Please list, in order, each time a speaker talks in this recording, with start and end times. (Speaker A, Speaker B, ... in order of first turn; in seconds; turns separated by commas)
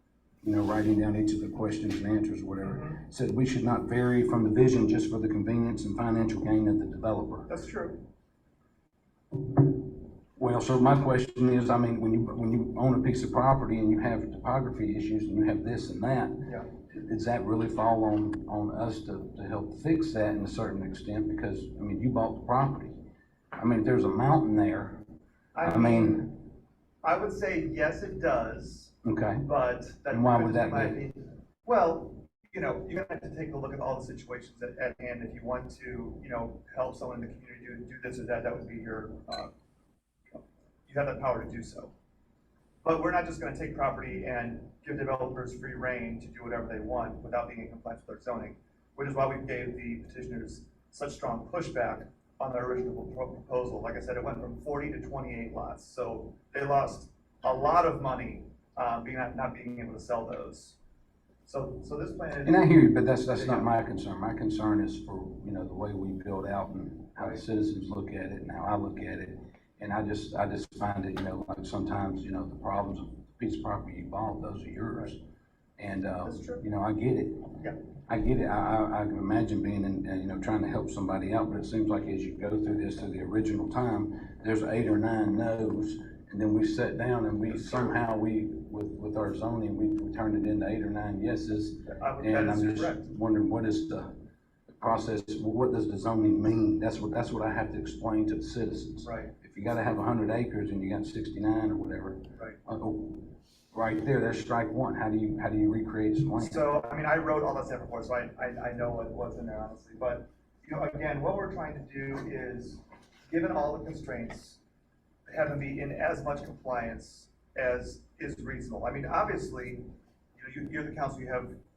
Speaker A: 0.4-7.5, Speaker B: 2.6-3.0, Speaker B: 7.5-8.0, Speaker A: 10.3-22.9, Speaker A: 23.5-25.0, Speaker B: 25.5-26.4, Speaker A: 25.6-26.4, Speaker B: 27.0-39.5, Speaker A: 29.0-29.5, Speaker A: 30.1-31.0, Speaker B: 40.3-41.9, Speaker B: 42.8-60.8, Speaker B: 61.4-62.7, Speaker A: 62.4-75.2, Speaker B: 63.3-63.7, Speaker B: 67.2-67.4, Speaker A: 75.8-77.5, Speaker B: 76.2-76.6, Speaker A: 78.1-94.1, Speaker B: 87.5-88.0, Speaker B: 91.9-93.1, Speaker A: 94.7-106.7, Speaker B: 99.0-99.3, Speaker B: 106.4-114.6, Speaker B: 115.3-121.6